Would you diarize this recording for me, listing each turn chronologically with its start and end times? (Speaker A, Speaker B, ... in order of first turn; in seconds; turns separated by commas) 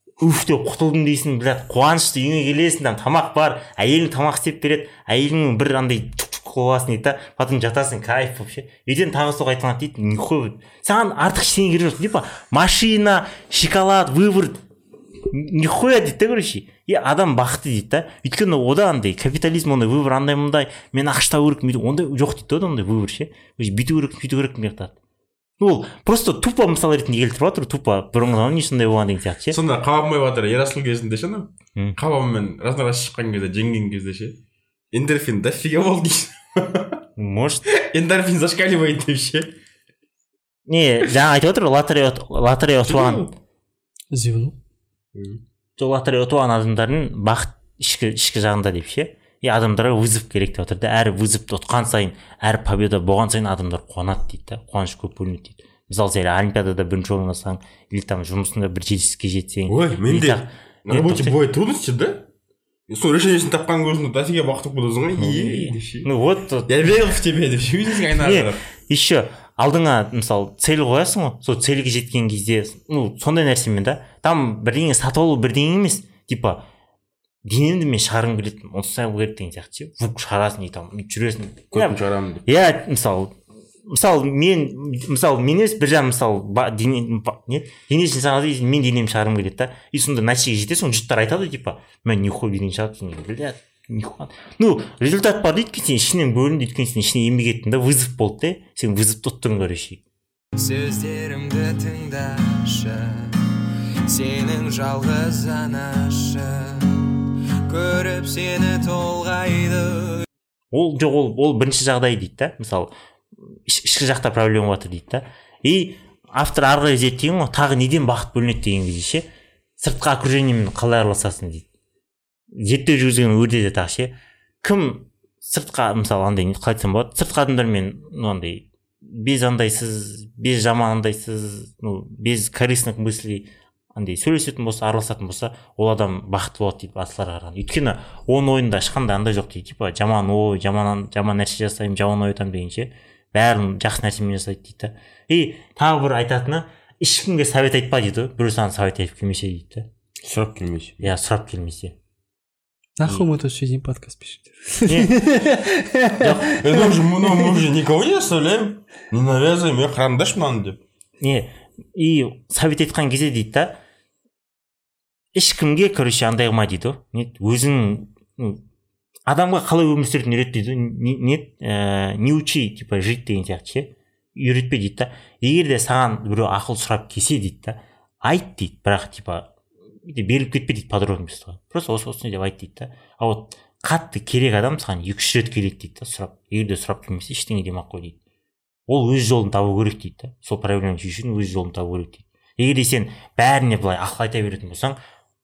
Speaker A: 0.2-14.6, Speaker A: 15.3-24.9, Speaker A: 25.6-29.6, Speaker B: 29.5-34.4, Speaker B: 34.9-37.0, Speaker A: 37.2-37.6, Speaker B: 37.9-39.5, Speaker A: 40.7-43.2, Speaker B: 42.9-43.3, Speaker C: 44.1-44.6, Speaker B: 45.1-45.4, Speaker A: 45.8-61.4, Speaker B: 59.7-62.3, Speaker B: 62.9-66.1, Speaker A: 65.1-66.8, Speaker B: 66.7-68.7, Speaker A: 68.1-76.7, Speaker A: 77.4-100.0, Speaker B: 81.7-82.4, Speaker D: 100.6-110.2, Speaker A: 110.7-112.9, Speaker A: 113.4-119.3, Speaker A: 119.8-121.7, Speaker A: 122.5-149.9, Speaker B: 150.2-151.1, Speaker A: 151.0-151.9, Speaker C: 153.0-156.9, Speaker A: 154.9-155.2, Speaker A: 156.2-156.6, Speaker B: 156.6-160.8, Speaker A: 161.2-163.8, Speaker A: 165.3-168.6, Speaker A: 169.3-179.5, Speaker A: 180.0-188.2, Speaker A: 188.9-195.0